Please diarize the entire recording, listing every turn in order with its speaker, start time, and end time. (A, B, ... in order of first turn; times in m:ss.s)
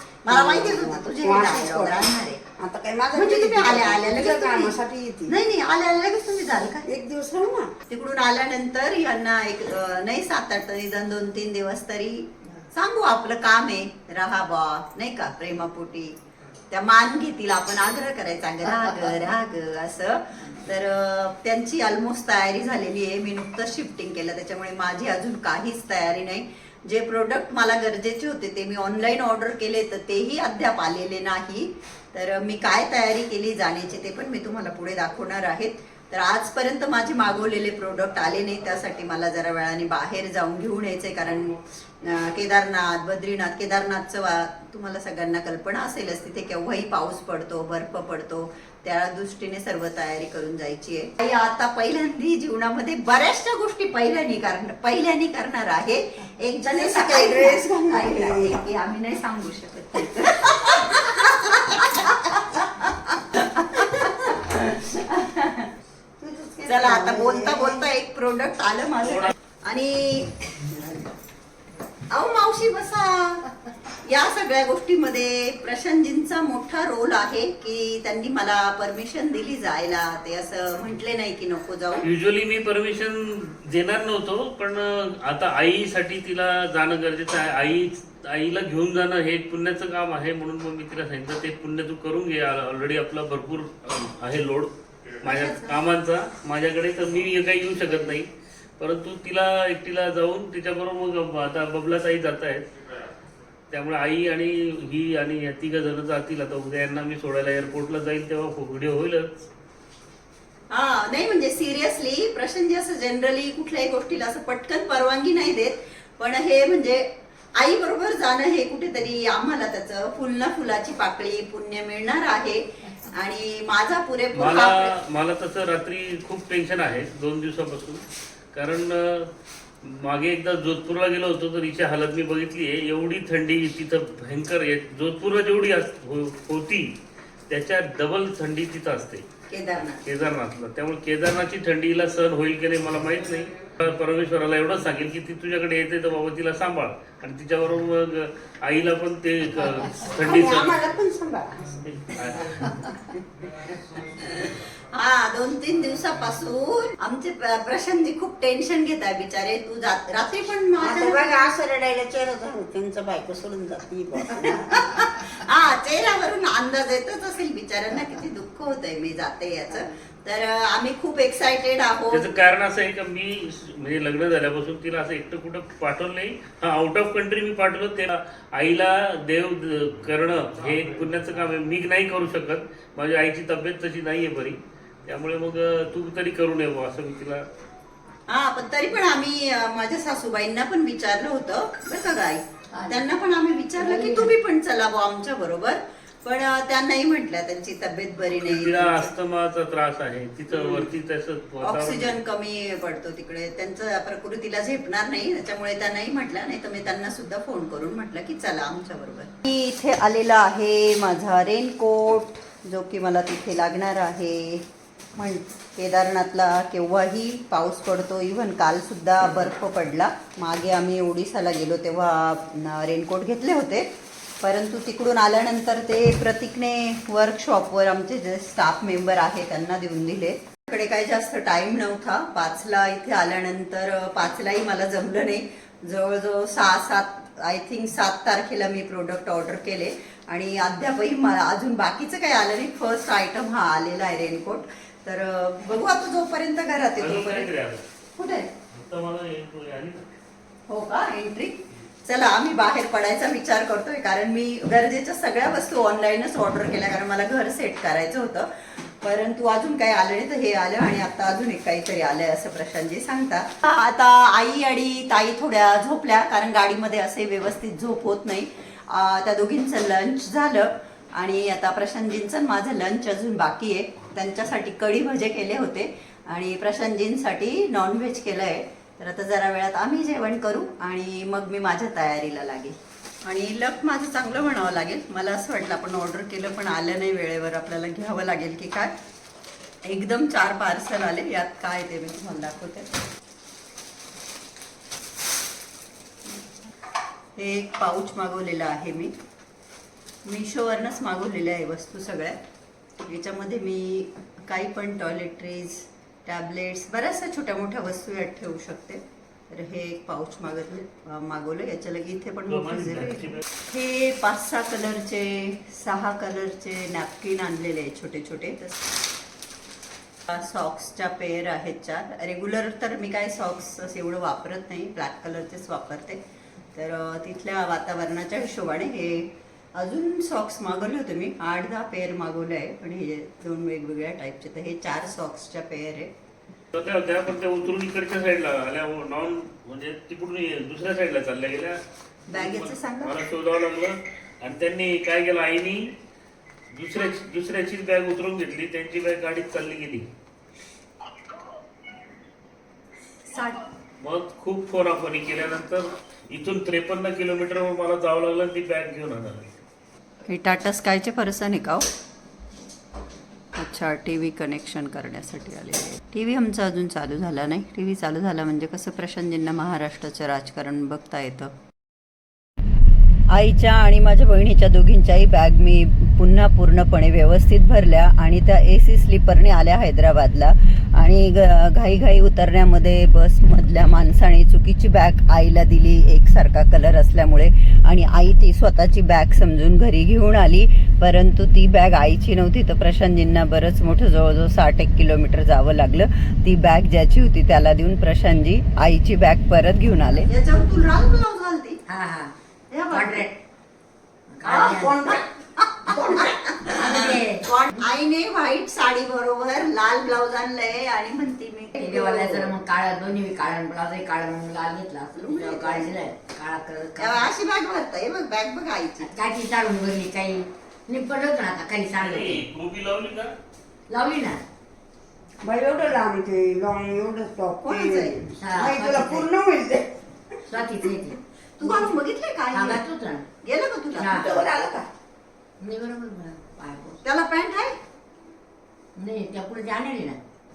0:00.2-0:02.4 A
0:00.3-0:02.0 B
0:02.6-0:05.3 B
0:03.1-0:04.8 A
0:05.3-0:06.9 A
0:06.8-0:07.7 B
0:07.9-0:16.1 A
0:16.7-1:05.7 A
0:56.6-0:58.6 B
1:00.2-1:00.5 B
1:03.8-1:04.1 B
1:06.2-1:07.9 B
1:06.7-1:10.8 A
1:09.0-1:09.3 C
1:12.1-1:22.0 A
1:22.0-1:34.7 C
1:35.2-1:42.6 C
1:35.2-1:35.8 A
1:43.7-1:49.3 C
1:50.7-2:04.9 A
2:04.3-2:09.3 C
2:09.8-2:16.9 C
2:17.5-2:19.2 C
2:19.5-2:20.0 A
2:20.0-2:30.7 C
2:30.2-2:31.7 B
2:31.8-2:32.7 C
2:34.1-2:41.5 A
2:40.8-2:45.0 B
2:44.6-2:52.3 A
2:52.1-3:07.4 C
3:08.3-3:19.1 A
3:12.7-3:13.1 D
3:13.7-3:14.3 D
3:18.4-3:22.2 C
3:20.6-3:20.8 A
3:21.6-3:34.6 A
3:35.2-3:43.9 A
3:44.4-4:07.5 A
4:07.0-4:07.8 C
4:08.2-4:08.5 A
4:08.7-4:10.0 C
4:10.7-4:48.9 A
4:49.8-4:52.9 A
4:57.4-4:59.1 A
5:00.2-5:02.4 A
5:03.0-5:18.8 A
5:12.5-5:13.4 C
5:20.3-5:26.2 A
5:26.7-5:36.1 A
5:36.7-5:41.8 C
5:42.3-5:43.2 A
5:42.3-5:45.8 C
5:46.7-5:50.0 C
5:53.3-5:53.6 A
5:54.0-5:59.5 C
6:00.3-6:01.8 A
6:03.6-6:11.5 A
6:13.3-6:41.8 A
6:41.9-6:42.3 D
6:42.7-6:43.3 A
6:42.9-6:43.4 D
6:44.3-6:45.1 D
6:44.4-6:45.3 B
6:45.1-6:52.5 A
6:45.8-6:46.5 B
6:46.7-6:47.4 D
6:51.7-6:57.3 D
6:55.1-6:56.0 A
6:57.0-6:59.1 A
6:59.0-7:02.4 D
7:02.0-7:03.3 C
7:03.9-7:04.4 D
7:05.4-7:09.9 B
7:07.6-7:08.2 A
7:08.4-7:09.3 D
7:10.5-7:11.9 D
7:11.6-7:12.8 A
7:12.5-7:13.3 D
7:13.4-7:14.4 A
7:14.0-7:14.4 D
7:14.1-7:14.9 B
7:15.6-7:17.0 D
7:17.0-7:17.8 A
7:19.0-7:20.2 D